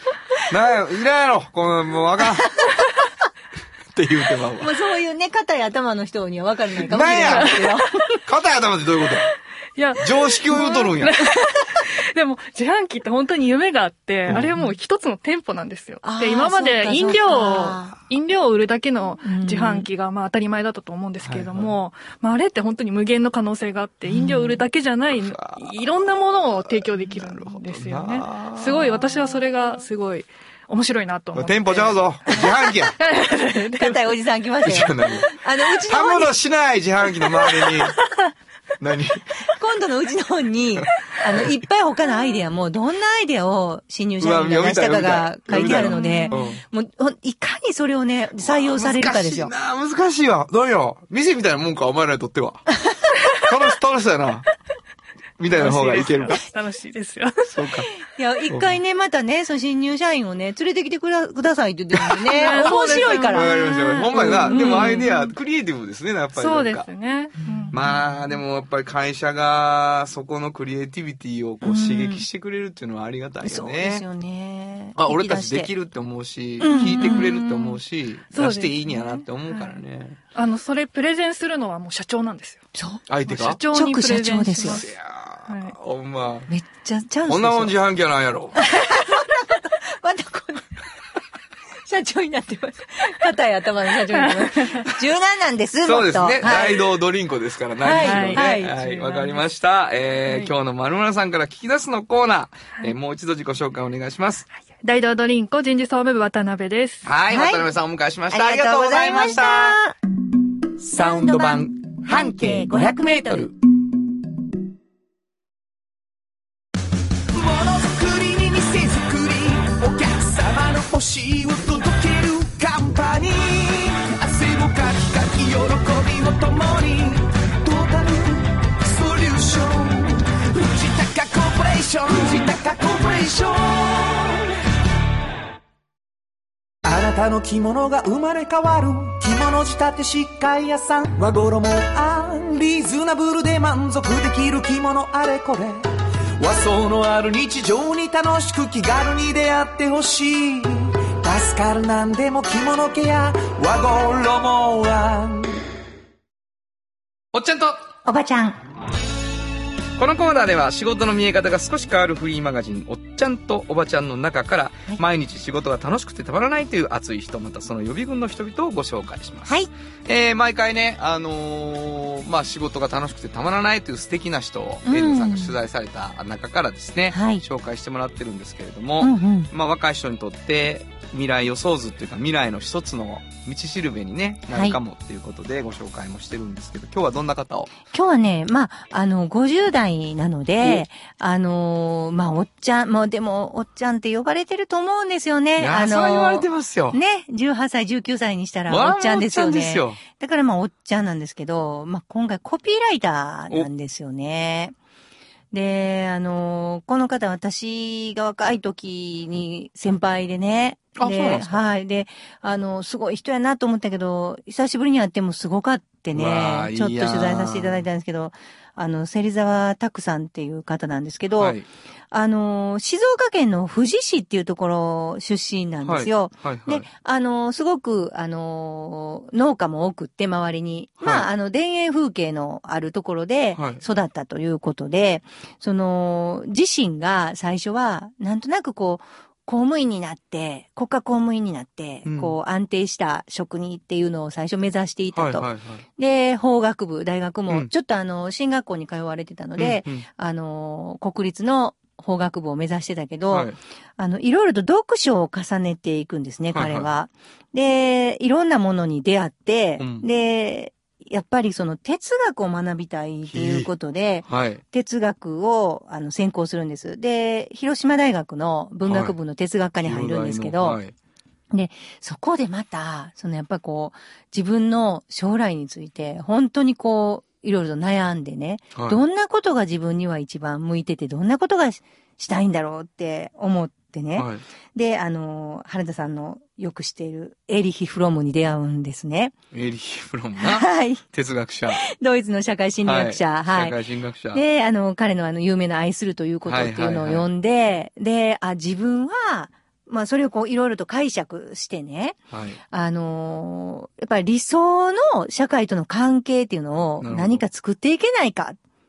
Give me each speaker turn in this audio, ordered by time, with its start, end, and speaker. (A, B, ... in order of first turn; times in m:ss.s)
0:00.5-0:02.6 A
0:04.0-0:04.7 A
0:04.6-0:08.0 B
0:06.8-0:07.6 A
0:07.3-0:07.8 C
0:08.3-0:09.3 A
0:09.8-0:34.2 C
0:10.0-0:11.2 A
0:14.3-0:14.6 A
0:16.0-0:18.0 B
0:19.2-0:19.9 B
0:21.2-0:21.8 A
0:24.1-0:24.6 B
0:25.1-0:25.7 A
0:26.7-0:29.1 A
0:31.3-0:32.9 A
0:33.6-0:36.3 B
0:34.6-0:35.3 A
0:35.8-0:38.0 A
0:38.8-0:39.2 A
0:39.5-0:49.5 B
0:40.8-0:41.5 A
0:44.2-0:46.6 A
0:45.8-0:46.5 C
0:48.4-0:52.7 A
0:53.3-0:54.5 A
0:55.4-0:56.4 A
0:55.5-0:57.6 C
0:57.5-0:57.9 A
0:58.1-1:03.5 B
1:02.0-1:02.8 A
1:02.3-1:05.3 C
1:03.3-1:06.9 A
1:04.1-1:05.1 B
1:06.4-1:07.8 C
1:07.7-1:14.0 A
1:11.6-1:12.3 B
1:13.4-1:15.7 B
1:15.0-1:20.2 A
1:16.6-1:17.4 B
1:16.7-1:17.8 C
1:18.3-1:19.8 C
1:20.4-1:22.6 C
1:22.8-1:23.0 B
1:23.1-1:23.6 A
1:23.3-1:24.9 C
1:23.7-1:24.8 B
1:24.6-1:26.5 A
1:25.5-1:25.8 C
1:26.5-1:27.8 B
1:27.3-1:28.6 A
1:28.6-1:30.7 B
1:31.9-1:36.8 B
1:34.1-1:34.8 C
1:35.8-1:44.5 A
1:37.8-1:38.7 B
1:37.8-1:39.4 C
1:40.3-1:40.5 C
1:44.8-1:47.1 C
1:47.0-1:49.8 A
1:47.3-1:47.6 B
1:48.3-1:49.9 B
1:50.8-1:53.5 A
1:50.9-1:53.4 B
1:57.3-2:14.5 D
2:16.8-2:25.9 D
2:26.4-2:35.6 D
2:37.3-2:37.8 A
2:38.0-2:38.6 B
2:40.0-3:07.7 A
2:54.8-2:55.6 B
2:57.1-2:57.4 B
2:59.0-2:59.5 B
3:04.5-3:04.8 B
3:07.9-3:24.8 B
3:15.6-3:17.0 A
3:18.7-3:20.0 A
3:25.5-3:41.6 B
3:31.0-3:31.6 A
3:36.1-3:37.8 A
3:41.4-3:41.7 A
3:42.1-4:30.8 B
3:45.8-3:46.9 A
3:51.0-3:51.3 A
3:53.6-3:53.8 A
4:02.0-4:02.4 A
4:05.2-4:05.8 A
4:09.6-4:10.1 A
4:13.3-4:13.6 A
4:16.5-4:16.9 A
4:19.8-4:20.1 A
4:23.3-4:23.7 A
4:24.3-4:24.6 A
4:28.9-4:29.2 A
4:29.8-4:30.9 A
4:31.5-4:49.3 B
4:44.2-4:44.4 A
4:49.5-4:51.8 A
4:50.4-4:51.0 B
4:51.7-4:53.8 B
4:52.8-4:54.4 A
4:54.3-5:02.2 B
4:56.5-4:57.3 A
5:02.3-5:02.6 A
5:02.7-5:08.6 B
5:07.0-5:07.4 A